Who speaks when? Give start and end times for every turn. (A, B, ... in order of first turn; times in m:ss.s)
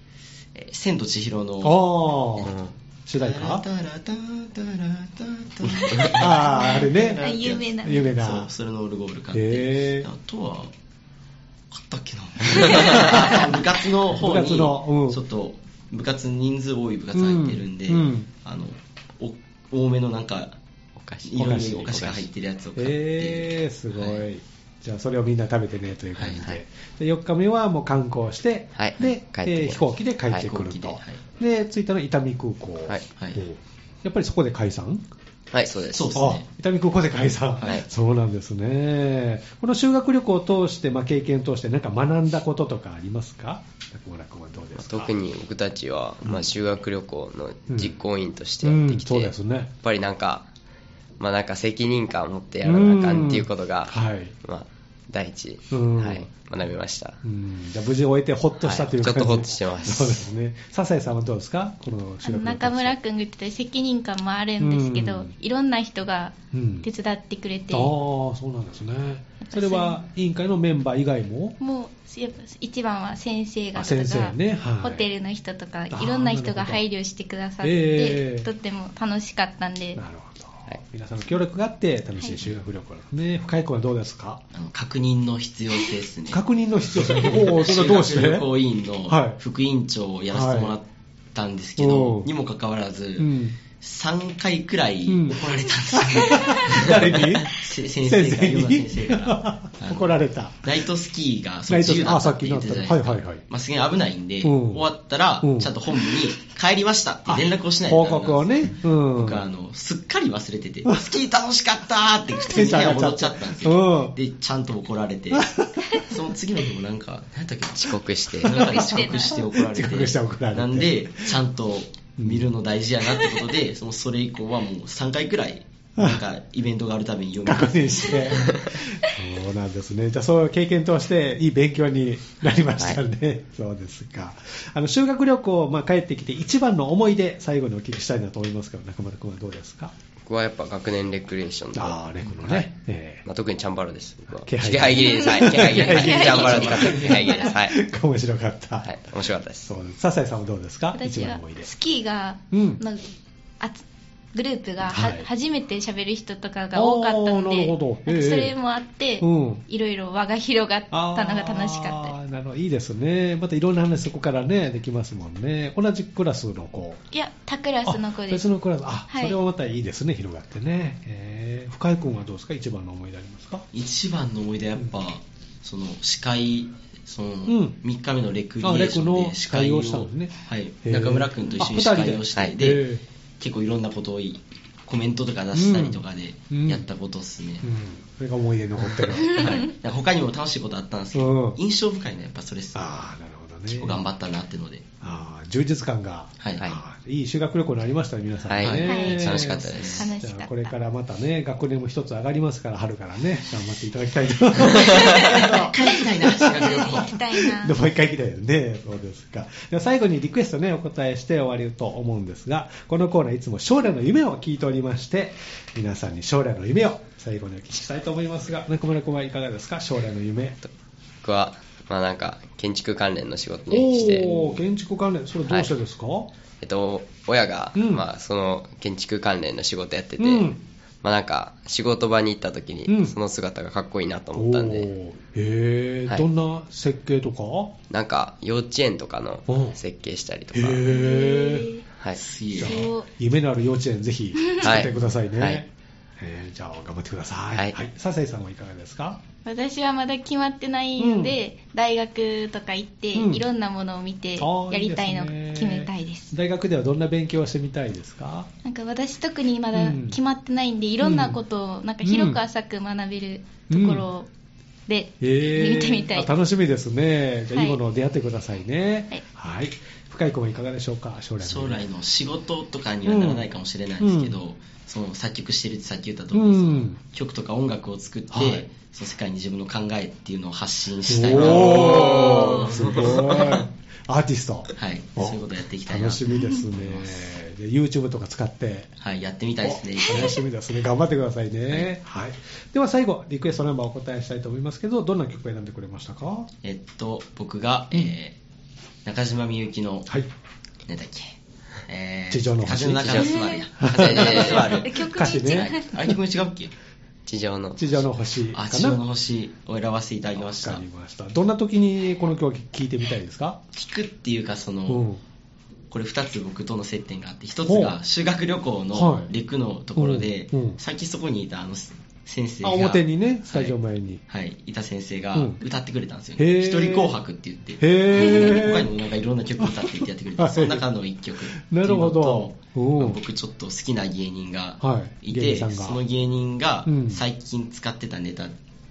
0:00.6-0:01.7 A
0:01.6-0:02.5 B
0:02.4-0:02.7 A
0:03.1-0:03.6 B
0:03.4-0:10.7 A
0:05.9-0:07.2 B
0:06.4-0:08.1 C
0:07.8-0:08.5 B
0:09.3-0:10.1 B
0:11.8-0:20.5 A
0:12.8-0:13.3 B
0:14.2-0:15.2 B
0:17.1-0:18.3 B
0:21.1-0:23.4 A
0:21.4-0:35.0 B
0:26.2-0:26.5 A
0:28.8-0:29.5 D
0:28.8-0:31.2 A
0:32.9-0:33.3 A
0:35.5-0:36.0 D
0:35.6-0:36.4 A
0:36.2-0:45.2 B
0:44.9-0:49.3 D
0:44.9-0:49.3 A
0:48.6-0:49.7 B
0:49.8-0:50.4 D
0:49.8-0:50.4 A
0:51.2-0:53.1 D
0:52.5-0:53.7 A
0:52.6-0:54.3 B
0:54.5-0:57.1 D
0:55.2-0:57.2 A
0:55.7-0:56.3 B
0:57.2-1:03.0 B
0:58.6-0:59.9 D
0:58.7-1:00.2 A
1:02.2-1:07.9 C
1:04.6-1:05.3 B
1:06.5-1:06.9 B
1:07.7-1:11.6 B
1:09.4-1:10.0 C
1:11.6-1:20.0 C
1:13.8-1:15.0 B
1:15.9-1:16.8 B
1:17.6-1:18.5 B
1:20.0-1:24.4 B
1:24.6-1:26.4 A
1:26.3-1:28.5 B
1:27.2-1:30.8 A
1:29.1-1:29.4 B
1:30.3-1:30.8 B
1:31.4-1:33.3 A
1:31.8-1:32.3 B
1:33.2-1:33.6 B
1:33.8-1:39.3 A
1:35.1-1:40.7 B
1:40.7-1:48.4 A
1:41.7-1:43.4 B
1:44.4-1:44.9 B
1:45.4-1:45.7 B
1:47.3-1:49.5 B
1:49.2-1:55.4 A
1:50.8-1:51.1 B
1:52.5-1:54.2 B
1:55.3-1:56.1 B
1:56.1-2:08.5 A
1:57.9-1:58.3 D
1:58.4-1:59.3 C
1:59.3-2:01.3 B
2:02.2-2:02.5 B
2:06.0-2:06.2 B
2:07.5-2:19.9 B
2:20.3-2:21.7 D
2:20.3-2:22.6 A
2:21.7-2:23.2 B
2:23.3-2:27.7 D
2:23.3-2:27.7 A
2:24.4-2:29.0 B
2:24.9-2:27.5 C
2:29.0-2:29.6 A
2:29.7-2:31.7 B
2:30.9-2:33.1 C
2:32.5-2:32.8 B
2:33.6-2:42.2 C
2:34.9-2:35.3 B
2:36.7-2:38.5 B
2:39.2-2:39.6 B
2:40.9-2:47.0 B
2:47.1-2:48.5 C
2:47.8-2:53.7 B
2:49.1-2:49.4 C
2:53.8-3:02.8 A
2:57.5-2:57.8 B
2:58.6-3:03.0 B
3:03.4-3:07.6 A
3:05.5-3:06.8 B
3:07.6-3:09.6 B
3:09.2-3:12.8 A
3:09.3-3:09.7 C
3:11.1-3:11.6 B
3:12.7-3:14.0 B
3:13.7-3:14.8 A
3:15.0-3:40.6 B
3:16.4-3:16.8 A
3:18.5-3:20.1 A
3:18.6-3:19.9 D
3:18.9-3:20.7 C
3:24.8-3:27.8 C
3:25.3-3:27.1 A
3:41.2-3:44.2 D
3:41.2-3:41.5 A
3:42.2-3:42.6 A
3:43.7-3:46.3 B
3:43.7-3:44.5 A
3:46.6-3:50.2 D
3:46.6-3:48.8 A
3:47.8-3:48.0 B
3:50.1-3:50.5 A
3:50.2-3:50.6 B
3:51.0-3:54.6 D
3:51.1-3:53.3 A
3:52.9-3:53.2 B
3:54.2-3:54.8 A
3:54.4-3:57.7 B
3:57.9-4:00.5 D
3:58.0-4:00.8 A
3:59.5-3:59.8 B
4:00.5-4:01.7 B
4:00.9-4:01.9 C
4:02.0-4:02.9 A
4:02.6-4:03.1 C
4:02.6-4:05.7 B
4:04.6-4:05.6 A
4:06.2-4:09.2 B
4:09.4-4:16.3 C
4:11.0-4:11.4 B
4:13.1-4:13.4 B
4:14.4-4:18.5 B
4:18.6-4:24.3 C
4:19.7-4:20.2 B
4:21.0-4:21.4 B
4:22.0-4:22.4 B
4:23.7-4:24.1 B
4:24.9-4:26.3 C
4:25.2-4:31.8 B
4:27.5-4:27.8 C
4:31.5-4:43.6 A
4:33.1-4:33.5 B
4:34.0-4:34.4 B
4:36.3-4:37.0 B
4:38.3-4:38.7 B
4:41.1-4:48.9 B
4:41.7-4:42.7 C
4:44.8-4:46.2 A
4:49.0-4:50.3 A
4:49.6-4:56.5 B
4:56.6-4:58.3 A
4:59.1-5:00.1 A
5:00.9-5:01.3 A
5:01.9-5:06.7 A
5:02.3-5:05.8 B
5:03.1-5:06.0 C
5:04.1-5:04.6 D
5:07.3-5:07.8 D
5:07.3-5:07.8 A
5:07.8-5:09.0 B
5:08.6-5:10.8 A
5:10.4-5:13.6 B
5:13.8-5:15.0 A
5:14.9-5:15.2 B
5:15.9-5:23.0 A
5:17.7-5:17.9 B
5:18.9-5:19.3 B
5:20.0-5:20.8 B
5:22.6-5:24.2 B
5:24.3-5:32.4 A
5:26.4-5:27.2 B
5:27.8-5:28.9 B
5:30.4-5:30.9 B
5:31.6-5:33.2 B
5:33.1-5:38.5 A
5:34.8-5:36.0 B
5:36.8-5:37.2 B